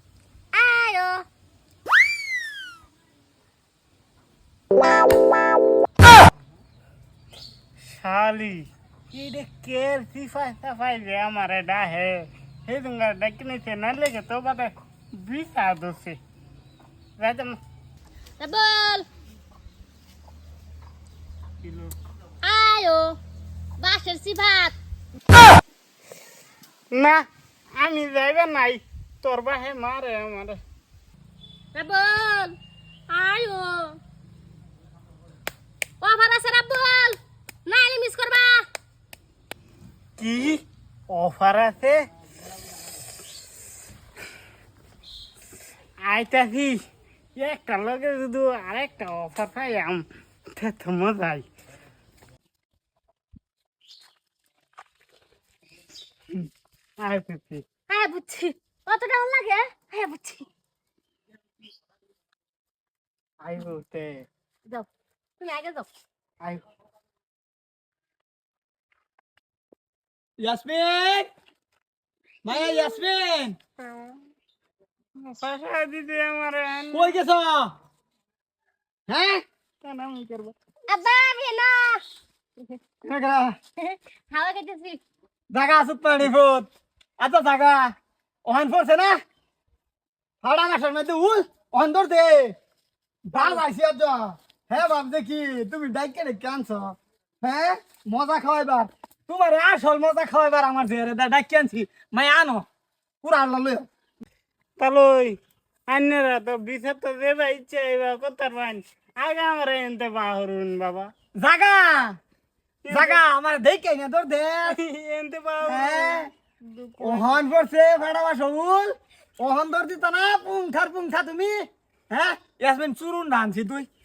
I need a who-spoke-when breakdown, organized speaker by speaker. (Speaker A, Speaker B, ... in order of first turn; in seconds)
Speaker A: 0.5-1.2, 18.4-19.0, 22.4-23.1, 23.8-24.7, 31.7-32.5, 33.1-34.0, 36.0-38.6, 57.9-60.5, 65.4-65.9, 72.5-73.0, 80.9-82.0, 83.8-85.0, 93.3-93.6
Speaker B: 7.9-16.2, 17.2-17.6, 21.6-21.9, 26.9-27.2, 27.8-30.6, 40.2-42.0, 46.0-46.8, 47.4-50.0, 50.5-51.5, 57.0-57.6, 63.4-64.3, 73.8-74.2, 75.2-77.2, 79.8-80.5, 104.8-111.1, 112.8-113.2, 114.6-117.4
Speaker C: 70.4-71.3, 72.4-73.6, 76.9-77.7, 79.1-79.4, 83.0-83.6, 85.5-87.9, 88.4-89.2, 90.4-92.5, 93.2-102.7, 103.2-103.9, 111.4-112.2, 112.9-114.8, 115.6-116.3, 117.0-123.9